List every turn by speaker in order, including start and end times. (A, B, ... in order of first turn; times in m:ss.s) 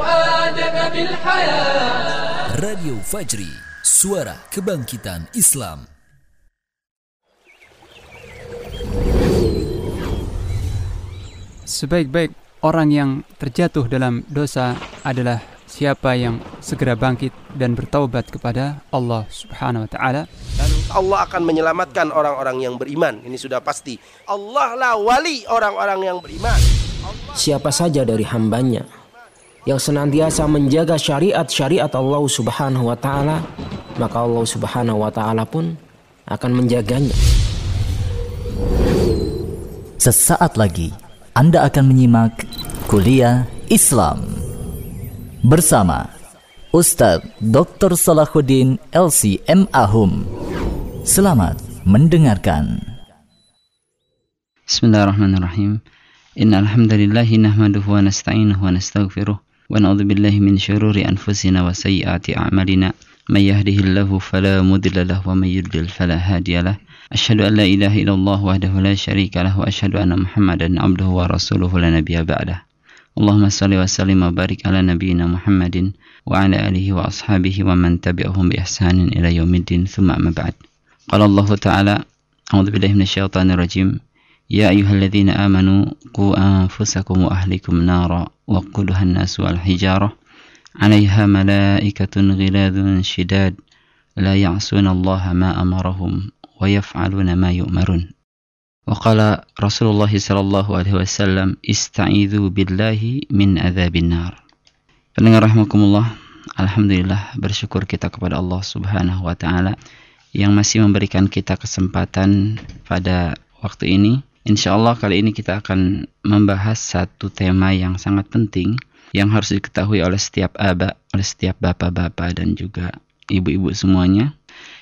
0:00.7-0:01.4 A
0:02.5-0:05.9 A
0:11.7-0:20.3 B
0:20.6-0:26.6 C
0:27.4-0:28.9 D
0:29.7-0:33.4 D
0:34.0-0:35.8 D
0:36.3-0:37.2 D
0:40.0-0:44.4 A
0:45.4-0:46.1 A
0:46.8-0:50.3 A
0:51.1-0:52.8 A
0:54.7-0:55.8 E
0:56.4-1:12.6 E
1:13.2-1:20.6 E
1:21.1-1:22.0 E
1:22.5-1:24.0 E
1:24.5-1:30.1 E
1:30.8-1:33.5 E
1:34.2-1:38.1 E
1:38.9-1:44.4 E
1:45.2-1:49.8 E
1:50.4-2:04.3 E